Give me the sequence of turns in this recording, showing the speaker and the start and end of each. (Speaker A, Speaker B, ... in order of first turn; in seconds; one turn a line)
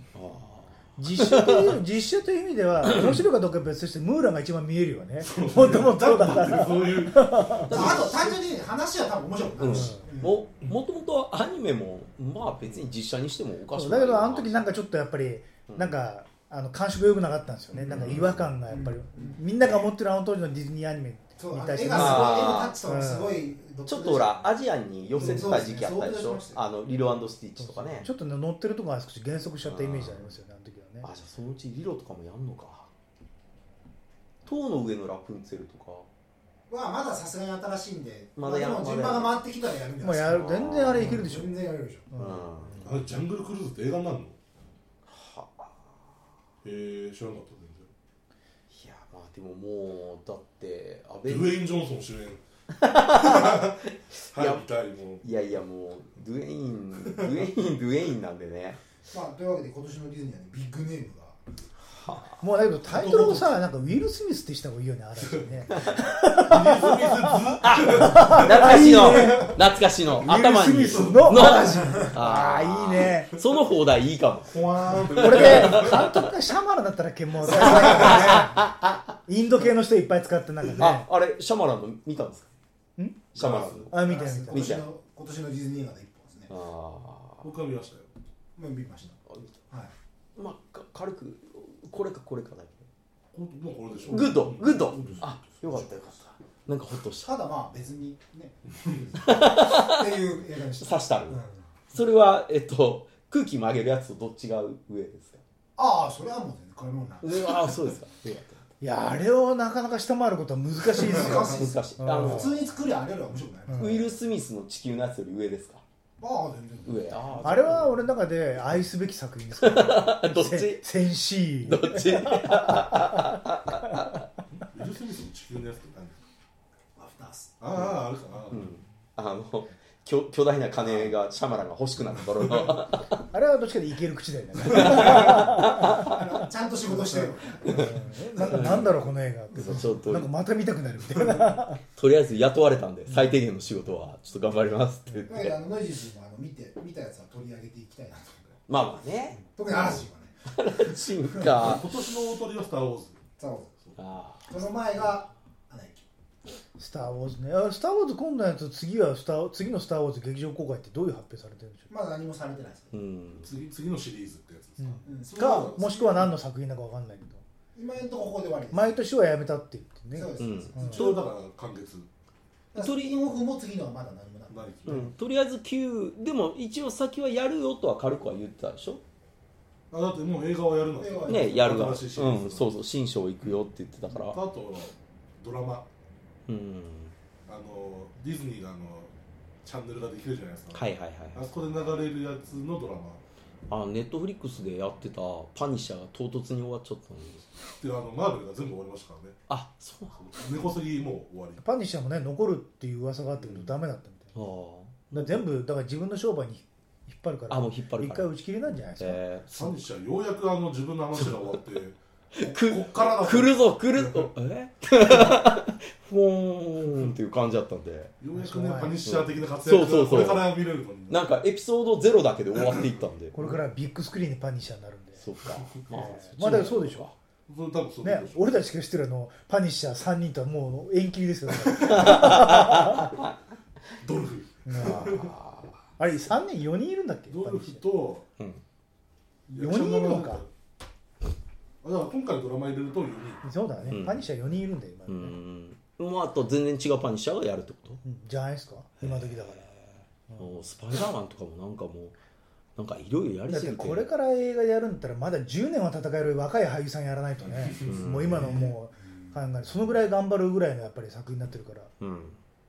Speaker A: 0.1-1.8
Speaker B: 1.0-8.0
Speaker C: 5.2-8.2
Speaker A: 7.7-8.3
Speaker D: 7.7-10.4
Speaker A: 9.6-14.6
Speaker B: 13.7-23.4
Speaker A: 15.7-15.9
Speaker A: 17.8-18.5
Speaker D: 18.7-19.4
Speaker D: 21.4-24.5
Speaker A: 21.9-22.8
Speaker A: 23.9-28.1
Speaker D: 25.1-26.6
Speaker B: 27.6-31.1
Speaker A: 29.6-30.3
Speaker A: 31.0-32.9
Speaker A: 34.4-36.1
Speaker D: 36.7-42.1
Speaker A: 38.4-39.4
Speaker B: 40.0-42.5
Speaker A: 40.3-41.2
Speaker A: 42.2-42.9
Speaker D: 42.6-43.0
Speaker C: 42.8-44.4
Speaker A: 45.0-45.9
Speaker C: 46.6-47.9
Speaker A: 48.7-51.6
Speaker C: 51.2-52.4
Speaker A: 52.8-54.6
Speaker C: 53.0-55.2
Speaker A: 55.2-58.8
Speaker D: 59.1-61.4
Speaker A: 61.9-62.4
Speaker B: 62.4-69.6
Speaker C: 62.9-63.4
Speaker D: 63.0-63.4
Speaker C: 66.4-69.4
Speaker A: 67.6-76.2
Speaker B: 70.2-73.4
Speaker C: 70.9-71.4
Speaker C: 74.5-76.1
Speaker D: 74.5-75.2
Speaker B: 75.1-78.6
Speaker D: 77.4-78.5
Speaker A: 77.5-79.2
Speaker B: 79.2-81.0
Speaker A: 80.8-82.5
Speaker B: 83.0-83.3
Speaker C: 83.3-83.9
Speaker A: 83.3-84.9
Speaker B: 83.9-84.8
Speaker D: 84.0-86.5
Speaker A: 86.5-87.5
Speaker C: 87.4-88.1
Speaker D: 88.5-89.9
Speaker A: 90.3-92.8
Speaker C: 93.3-95.3
Speaker A: 94.1-97.3
Speaker D: 94.9-96.2
Speaker D: 97.2-101.7
Speaker A: 99.2-100.2
Speaker A: 100.8-101.4
Speaker A: 101.9-105.4
Speaker D: 105.8-107.8
Speaker A: 107.2-108.6
Speaker B: 108.8-112.5
Speaker D: 110.9-114.2
Speaker A: 111.0-112.6
Speaker B: 113.7-114.0
Speaker A: 113.8-115.8
Speaker D: 116.2-117.3
Speaker A: 116.8-118.0
Speaker B: 117.4-123.4
Speaker A: 119.6-120.8
Speaker A: 121.6-124.2
Speaker C: 124.6-126.2
Speaker D: 127.0-127.6
Speaker C: 127.6-128.7
Speaker A: 128.5-133.2
Speaker B: 133.3-136.3
Speaker A: 134.6-136.2
Speaker D: 135.8-138.1
Speaker B: 137.7-141.8
Speaker A: 137.7-140.3
Speaker A: 141.9-145.5
Speaker B: 143.1-143.4
Speaker D: 145.3-148.6
Speaker A: 148.7-151.8
Speaker D: 149.5-151.5
Speaker C: 151.5-153.2
Speaker D: 153.4-153.7
Speaker A: 153.9-155.1
Speaker D: 154.5-156.0
Speaker B: 156.8-161.9
Speaker D: 161.9-162.9
Speaker A: 162.9-163.5
Speaker C: 163.4-165.0
Speaker B: 164.8-167.4
Speaker D: 165.0-166.3
Speaker D: 167.7-169.0
Speaker B: 168.7-170.3
Speaker D: 170.1-171.2
Speaker A: 170.4-171.2
Speaker C: 170.8-172.1
Speaker D: 172.7-174.8
Speaker A: 172.7-173.2
Speaker C: 174.5-175.1
Speaker A: 174.8-179.0
Speaker C: 179.9-182.7
Speaker D: 181.0-181.8
Speaker A: 181.2-184.4
Speaker C: 184.1-185.9
Speaker A: 186.5-187.1
Speaker C: 187.4-193.2
Speaker A: 190.7-191.5
Speaker A: 193.7-197.6
Speaker C: 197.8-199.4
Speaker A: 199.5-200.2
Speaker C: 200.2-201.6
Speaker B: 201.6-204.3
Speaker C: 203.4-203.7
Speaker A: 204.3-205.4
Speaker B: 205.1-209.2
Speaker A: 207.5-208.3
Speaker A: 209.0-209.8
Speaker C: 209.5-214.3
Speaker A: 212.3-218.2
Speaker C: 218.2-221.2
Speaker B: 218.3-219.1
Speaker A: 219.0-220.5
Speaker A: 221.1-223.3
Speaker B: 223.3-225.2
Speaker A: 225.2-227.1
Speaker B: 225.9-227.1
Speaker C: 227.5-228.5
Speaker B: 228.0-233.1
Speaker A: 231.8-233.3
Speaker C: 231.8-232.1
Speaker C: 234.0-235.3
Speaker B: 234.7-235.3
Speaker A: 234.8-235.8
Speaker B: 236.0-237.8
Speaker C: 237.3-238.2
Speaker A: 238.4-238.6
Speaker B: 239.5-240.4
Speaker C: 239.5-240.5
Speaker C: 241.8-243.4
Speaker B: 243.4-245.3
Speaker A: 243.9-244.2
Speaker A: 245.1-248.0
Speaker B: 248.0-249.6
Speaker A: 249.0-252.2
Speaker A: 252.8-254.1
Speaker B: 253.5-261.9
Speaker C: 257.6-258.7
Speaker A: 257.8-258.6
Speaker A: 262.0-262.4